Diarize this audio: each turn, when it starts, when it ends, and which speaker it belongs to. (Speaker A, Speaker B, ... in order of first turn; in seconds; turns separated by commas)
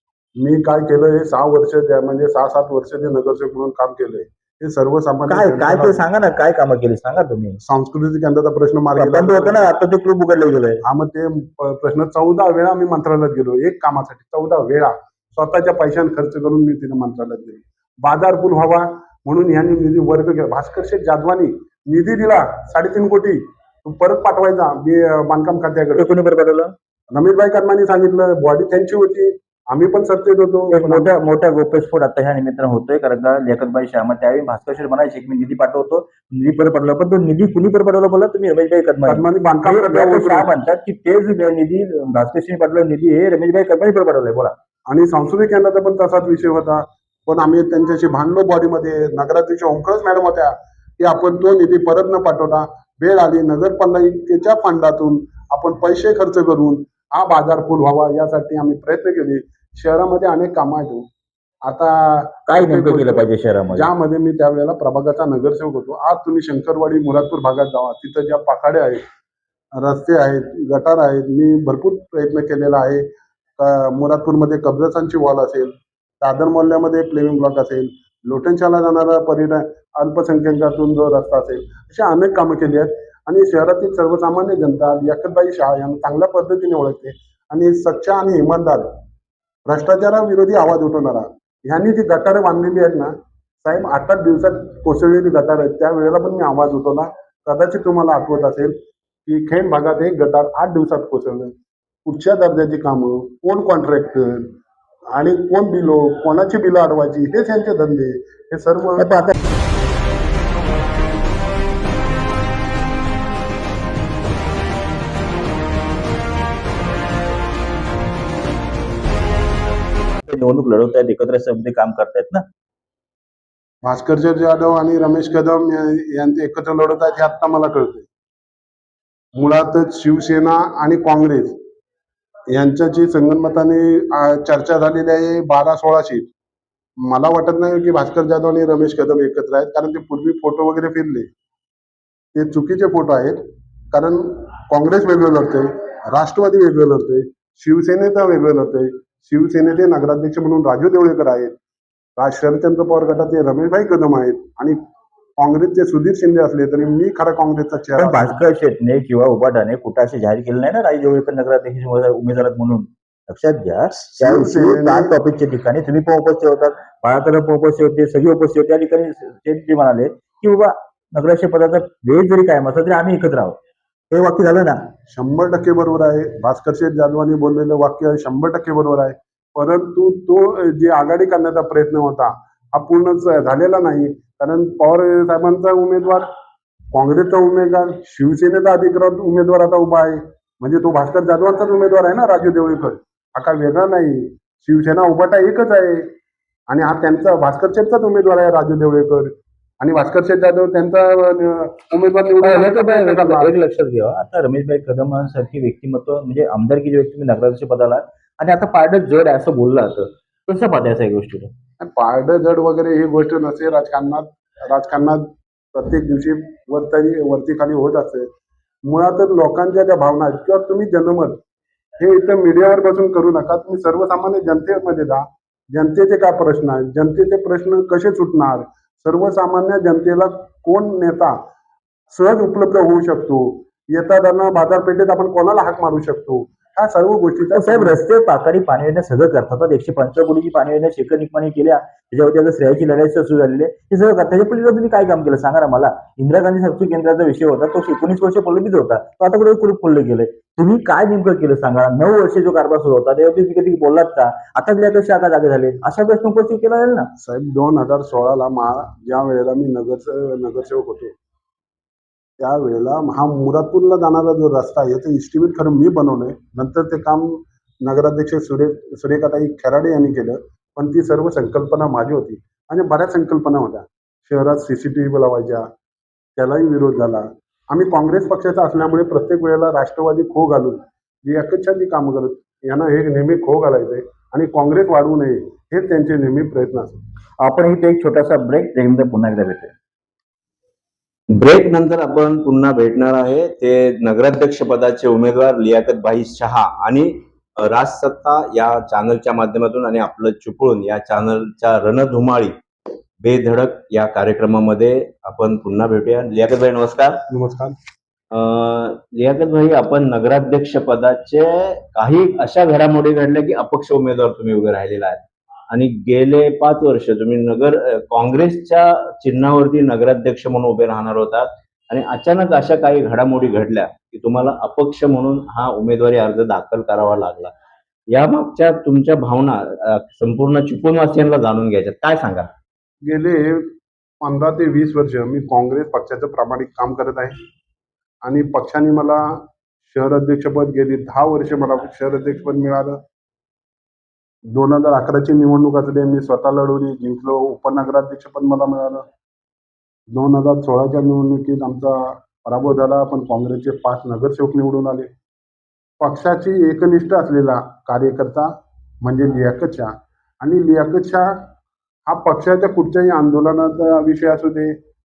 Speaker A: 0.4-6.0, Speaker B: 5.3-7.6, Speaker A: 7.6-9.7, Speaker B: 9.0-10.8, Speaker A: 10.8-26.1, Speaker B: 26.0-26.7, Speaker A: 27.1-31.1, Speaker B: 30.7-44.5, Speaker A: 39.1-40.5, Speaker A: 44.9-61.1, Speaker A: 61.7-69.0, Speaker B: 62.5-63.9, Speaker A: 69.8-73.1, Speaker A: 73.6-88.9, Speaker A: 89.7-93.1, Speaker A: 93.6-101.5, Speaker A: 102.0-104.5, Speaker A: 105.1-109.3, Speaker B: 109.0-109.3, Speaker B: 120.2-122.5, Speaker A: 123.8-128.1, Speaker A: 129.4-131.6, Speaker A: 132.5-136.3, Speaker A: 137.0-141.3, Speaker A: 142.3-151.6, Speaker A: 152.2-154.8, Speaker A: 155.4-158.4, Speaker B: 158.0-173.6, Speaker A: 164.2-165.2, Speaker B: 174.1-174.8, Speaker A: 175.1-186.3, Speaker A: 186.9-196.1, Speaker A: 196.7-203.5, Speaker B: 202.4-211.5, Speaker A: 211.8-218.3, Speaker A: 218.9-221.4, Speaker A: 222.0-231.4, Speaker A: 232.1-238.0, Speaker B: 237.5-257.1, Speaker A: 257.2-261.1, Speaker A: 262.4-275.7, Speaker A: 276.4-287.0, Speaker B: 287.4-289.7, Speaker C: 291.3-302.6, Speaker C: 303.2-307.2, Speaker A: 307.3-307.8, Speaker C: 308.3-327.5, Speaker C: 328.1-332.5, Speaker A: 333.1-337.4, Speaker A: 338.2-343.0, Speaker A: 344.5-349.1, Speaker A: 350.1-355.1, Speaker A: 356.0-361.5, Speaker A: 362.1-364.8